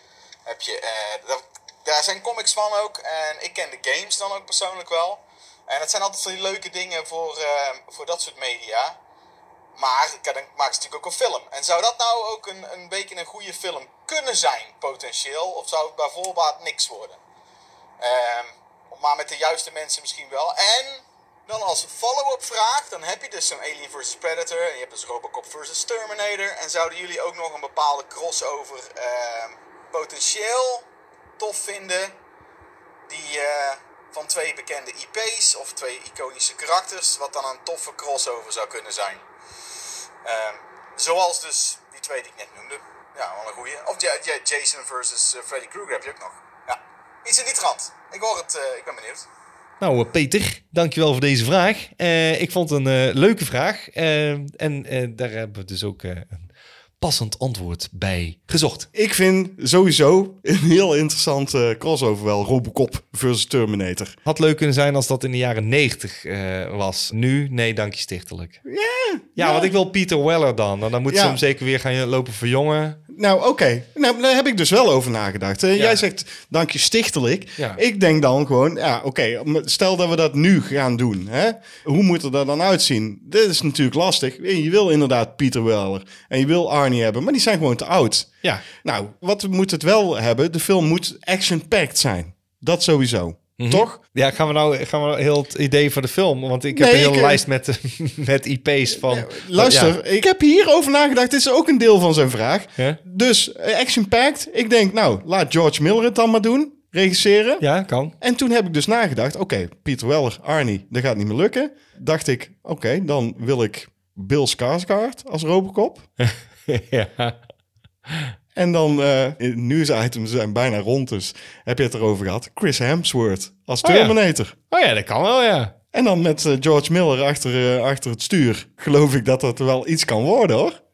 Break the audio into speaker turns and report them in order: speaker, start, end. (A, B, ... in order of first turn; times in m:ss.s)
0:00.4-0:09.0 A
0:09.8-0:17.2 A
0:18.0-0:30.9 A
0:31.4-0:32.1 A
0:33.1-0:39.2 A
0:40.2-0:49.3 A
0:49.8-0:56.5 B
0:57.0-0:58.9 B
0:58.9-1:04.2 C
1:04.2-1:08.6 B
1:08.6-1:09.7 C
1:09.4-1:13.0 B
1:11.1-1:11.4 C
1:13.1-1:34.0 C
1:15.7-1:16.0 B
1:33.6-1:39.9 B
1:36.7-1:37.4 C
1:38.9-1:47.6 C
1:47.6-1:48.1 B
1:48.2-1:56.1 C
1:56.2-1:57.4 B
1:58.1-1:58.3 B
1:58.5-2:04.5 C
2:03.8-2:04.1 B
2:04.7-2:05.7 B
2:05.9-2:10.8 C